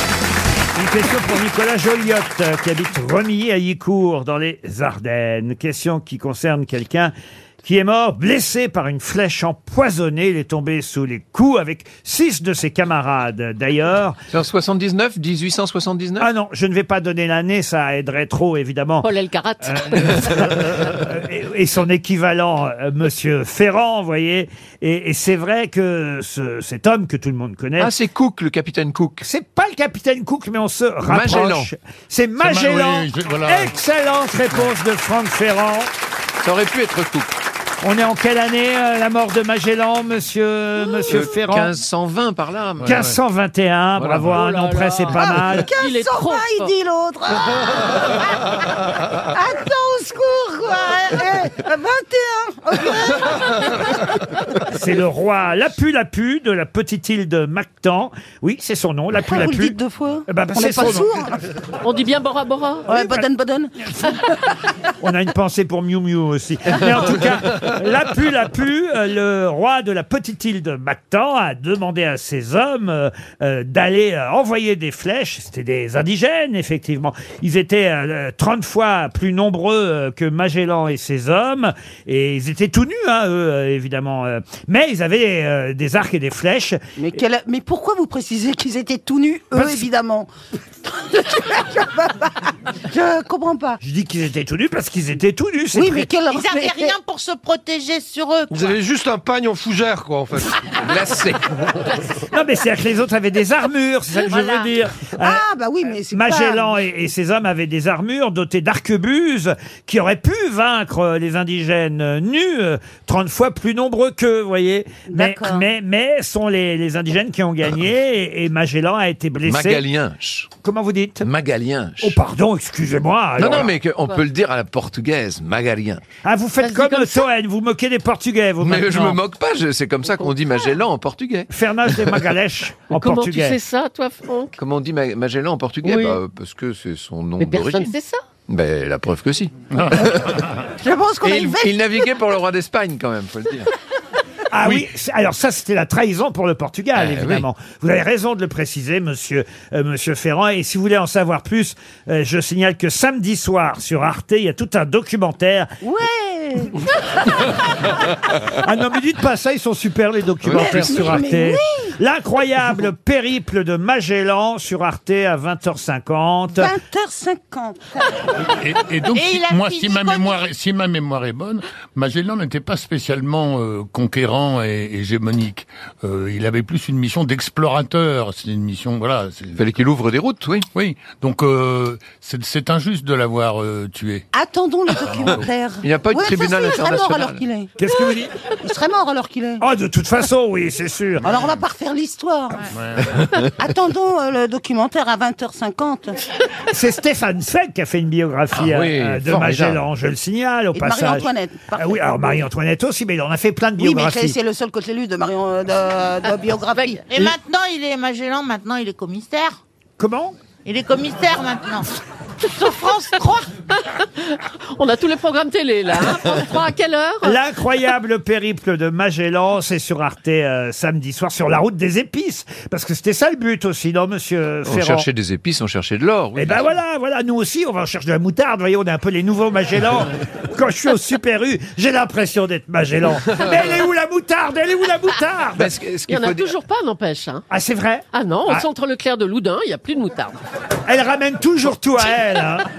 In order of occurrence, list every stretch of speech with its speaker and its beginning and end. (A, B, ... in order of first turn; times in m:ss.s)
0:00.8-0:14.2 A
0:14.3-0:16.3 B
0:16.2-0:19.1 A
0:19.0-0:20.6 C
0:19.6-0:27.9 A
0:27.8-0:29.2 B
0:29.2-0:35.9 A
0:31.1-0:31.7 B
0:32.4-0:33.7 D
0:36.4-0:37.3 B
0:37.8-0:41.7 A
0:41.1-0:43.0 B
0:42.8-0:43.2 D
0:42.8-0:45.7 A
0:44.0-0:44.3 B
0:44.3-0:46.7 C
0:45.1-0:48.4 E
0:49.3-0:54.1 E
0:54.7-1:01.2 A
0:59.2-1:01.4 E
1:01.8-1:02.9 C
1:02.9-1:04.5 E
1:02.9-1:03.3 A
1:05.0-1:26.8 A
1:27.0-1:30.3 E
1:29.5-1:29.9 A
1:30.8-1:33.8 E
1:33.8-1:36.1 A
1:35.7-1:37.0 E
1:36.3-1:38.8 F
1:38.5-1:40.7 G
1:40.8-1:41.4 B
1:42.3-1:45.4 A
1:44.3-1:44.7 F
1:45.2-1:46.7 E
1:46.1-1:59.8 A
1:55.1-1:55.7 E
1:59.5-2:00.5 B
2:00.6-2:01.3 A
2:01.2-2:02.2 B
2:02.0-2:03.8 A
2:03.4-2:06.0 B
2:06.2-2:09.2 A
2:06.6-2:07.3 C
2:08.6-2:11.5 B
2:11.5-2:13.6 A
2:13.0-2:14.6 C
2:14.6-2:17.9 B
2:15.8-2:16.2 C
2:17.4-2:18.2 C
2:18.5-2:20.4 B
2:19.7-2:20.5 D
2:20.8-2:22.1 E
2:21.2-2:23.7 B
2:24.5-2:35.7 A
2:27.0-2:27.5 B
2:35.8-2:36.9 E
2:38.5-2:46.8 A
2:40.4-2:41.2 B
2:40.5-2:42.0 E
2:46.6-2:48.1 E
2:48.6-2:59.6 D
2:49.1-2:50.4 F
2:59.6-3:00.7 B
3:00.7-3:04.3 D
3:04.3-3:07.7 E
3:05.0-3:05.4 D
3:05.8-3:07.4 B
3:07.8-3:08.3 A
3:08.6-3:09.6 E
3:09.6-3:11.3 A
3:11.2-3:12.6 E
3:12.8-3:13.1 D
3:13.6-3:16.2 E
3:16.7-3:24.4 A
3:18.5-3:19.8 B
3:20.7-3:22.0 E
3:23.8-3:27.1 E
3:27.1-3:29.6 F
3:30.0-3:30.4 A
3:30.6-3:31.9 F
3:32.5-3:33.5 F
3:33.7-3:37.4 C
3:37.2-3:45.1 A
3:44.7-3:46.7 B
3:46.4-3:55.7 A
3:55.6-3:56.5 B
3:56.1-3:57.4 C
3:57.5-3:58.7 A
3:58.1-4:00.4 C
4:00.9-4:02.7 A